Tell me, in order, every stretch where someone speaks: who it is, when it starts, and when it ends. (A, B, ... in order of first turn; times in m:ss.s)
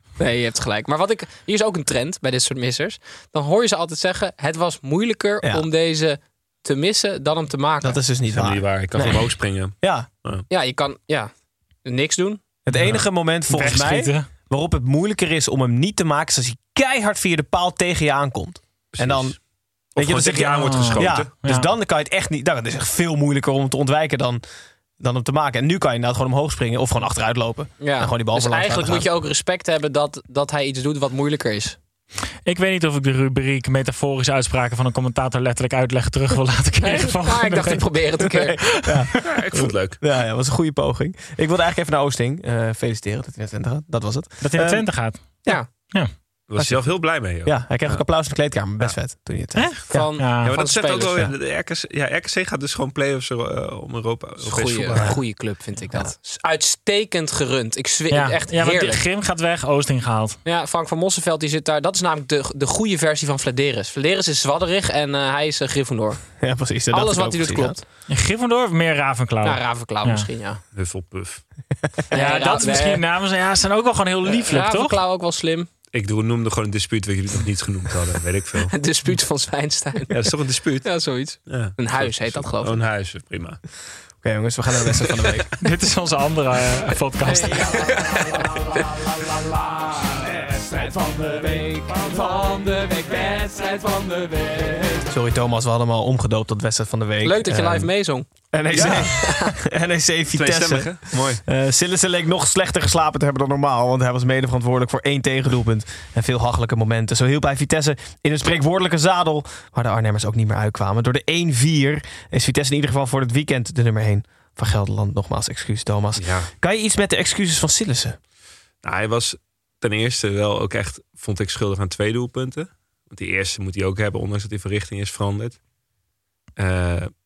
0:00.2-0:08.0 A
0:07.8-0:09.2 B
0:08.3-0:10.4 C
0:09.8-0:10.1 B
0:10.5-0:11.3 A
0:11.8-0:12.4 A
0:12.7-0:19.4 B
0:12.7-0:14.3 D
0:18.9-0:19.4 C
0:20.0-0:21.3 C
0:20.0-0:24.4 B
0:20.6-0:21.7 D
0:25.0-0:29.1 B
0:27.8-0:31.8 A
0:32.5-0:38.0 D
0:36.8-0:38.6 A
0:38.7-0:44.9 B
0:39.2-0:40.0 C
0:44.4-0:46.1 D
0:46.5-0:48.0 C
0:46.6-0:46.9 B
0:47.4-0:50.1 B
0:49.6-0:50.5 D
0:49.9-0:51.2 A
0:50.4-0:55.1 C
0:54.4-0:59.0 A
0:55.0-0:55.2 B
0:58.1-1:00.4 D
1:00.4-1:06.3 A
1:06.4-1:07.8 B
1:06.9-1:07.8 A
1:08.1-1:10.3 D
1:09.4-1:10.6 A
1:10.7-1:11.4 C
1:12.1-1:13.0 A
1:12.1-1:15.0 D
1:14.2-1:15.7 A
1:15.9-1:18.7 C
1:18.7-1:20.2 A
1:20.1-1:23.6 C
1:20.8-1:22.8 A
1:24.2-1:25.5 B
1:25.6-1:27.7 D
1:27.2-1:27.8 A
1:27.8-1:28.4 C
1:32.5-1:34.7 E
1:35.1-1:37.9 B
1:37.2-1:38.3 A
1:38.5-1:58.2 B
1:38.7-1:39.1 C
1:38.9-1:39.5 A
1:40.3-1:41.4 C
1:56.2-1:56.5 C
1:58.8-2:05.6 C
2:06.6-2:07.1 C